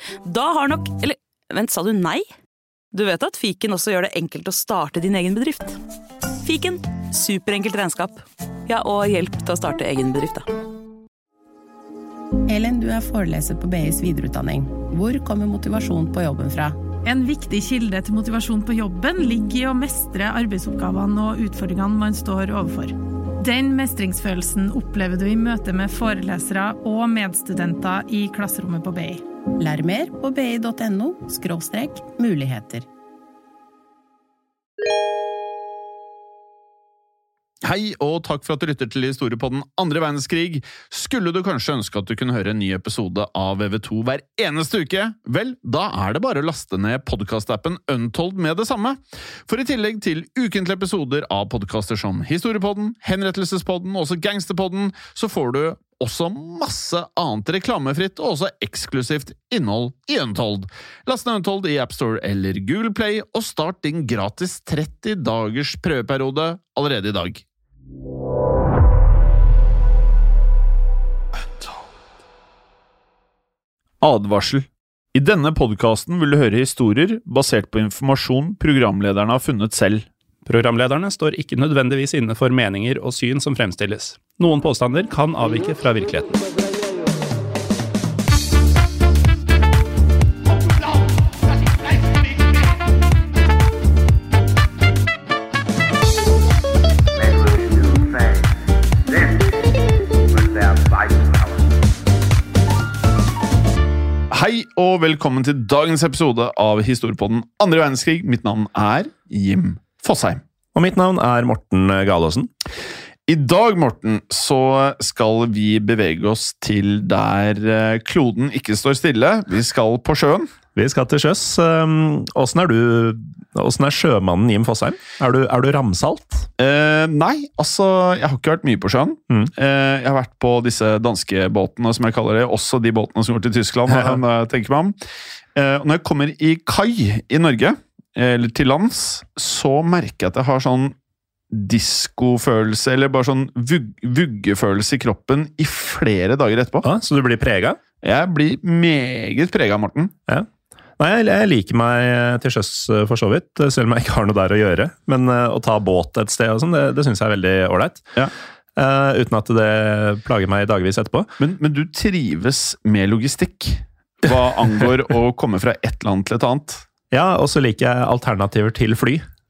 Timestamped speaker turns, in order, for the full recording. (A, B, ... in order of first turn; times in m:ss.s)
0:00.3-0:02.2 A
0:02.9-0:05.8 A
0:06.4-0:10.4 A
0:12.5-0:16.8 B
0:17.0-0:29.2 C
0:29.6-0:32.9 B
0:37.6-0:49.0 D
0:49.5-1:07.4 D
1:14.0-1:14.6 D
1:15.2-1:20.0 D
1:20.5-1:26.4 E
1:44.3-1:50.4 D
1:50.7-1:52.5 E
1:53.3-2:00.5 D
2:00.8-2:06.5 E
2:06.6-2:15.0 D
2:13.9-2:14.2 E
2:15.6-2:20.9 D
2:21.5-2:26.9 D
2:26.8-2:27.8 E
2:28.0-2:30.1 D
2:31.0-2:38.1 E
2:38.8-2:41.3 E
2:41.4-2:46.8 D
2:47.1-2:49.2 E